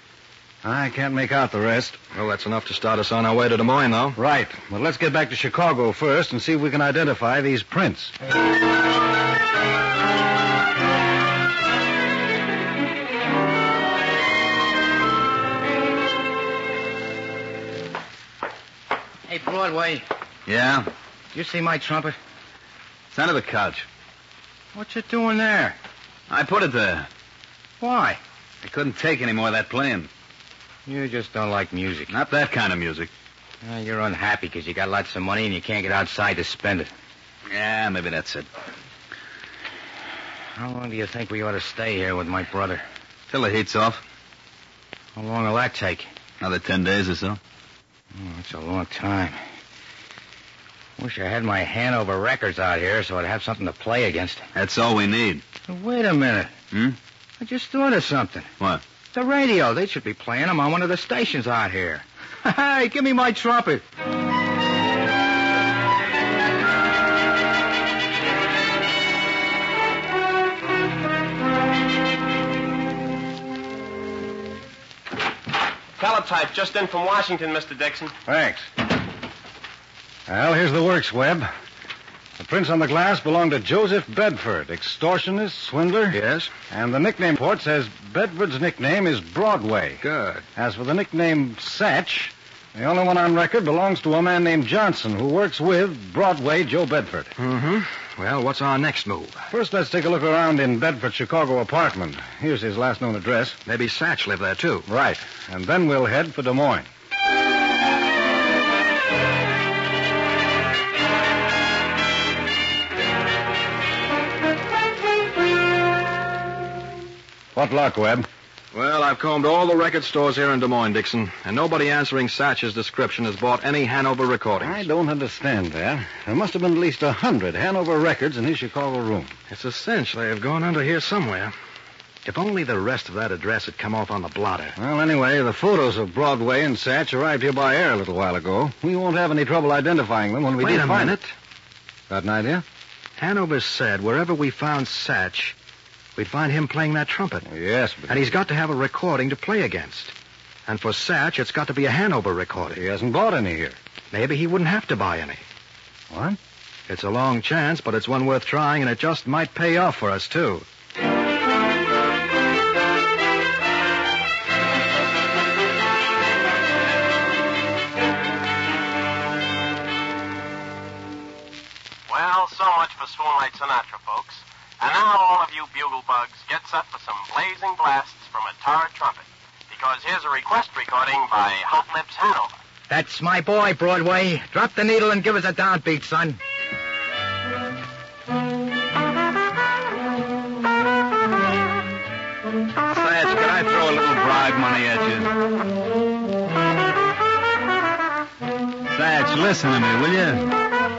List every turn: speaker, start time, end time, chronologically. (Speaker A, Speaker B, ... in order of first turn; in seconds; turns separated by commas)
Speaker A: 0.6-2.0, Speaker B: 2.1-4.2, Speaker A: 4.1-8.1, Speaker C: 19.3-20.1, Speaker D: 20.4-20.9, Speaker C: 21.3-22.2, Speaker D: 23.1-23.9, Speaker C: 24.7-25.8, Speaker D: 26.3-27.1, Speaker C: 27.8-28.2, Speaker D: 28.6-30.1, Speaker C: 30.9-32.1, Speaker D: 32.1-33.1, Speaker C: 33.6-36.9, Speaker D: 37.5-38.5, Speaker C: 40.5-42.8, Speaker D: 43.3-44.0, Speaker C: 45.1-46.1, Speaker D: 46.4-47.4, Speaker C: 48.1-49.4, Speaker C: 51.0-54.5, Speaker D: 54.5-55.4, Speaker C: 55.7-56.5, Speaker C: 57.4-58.5, Speaker C: 59.1-63.8, Speaker E: 76.0-78.1, Speaker A: 78.2-78.7, Speaker A: 80.3-81.5, Speaker A: 82.4-90.0, Speaker B: 86.1-86.5, Speaker B: 90.0-90.4, Speaker A: 90.5-97.3, Speaker B: 97.4-99.5, Speaker A: 99.5-103.6, Speaker B: 103.7-104.9, Speaker A: 104.9-106.9, Speaker A: 117.5-118.3, Speaker B: 118.7-124.8, Speaker A: 124.6-129.3, Speaker B: 129.5-131.5, Speaker B: 132.2-134.8, Speaker A: 134.8-141.2, Speaker B: 140.6-141.3, Speaker A: 142.1-142.6, Speaker B: 143.2-145.5, Speaker B: 146.2-147.4, Speaker A: 147.4-148.3, Speaker B: 148.1-150.1, Speaker B: 150.7-152.8, Speaker A: 152.7-153.8, Speaker B: 154.1-155.4, Speaker A: 156.1-156.4, Speaker B: 156.9-160.6, Speaker E: 172.1-182.5, Speaker C: 182.9-186.4, Speaker D: 192.9-195.3, Speaker D: 198.9-200.5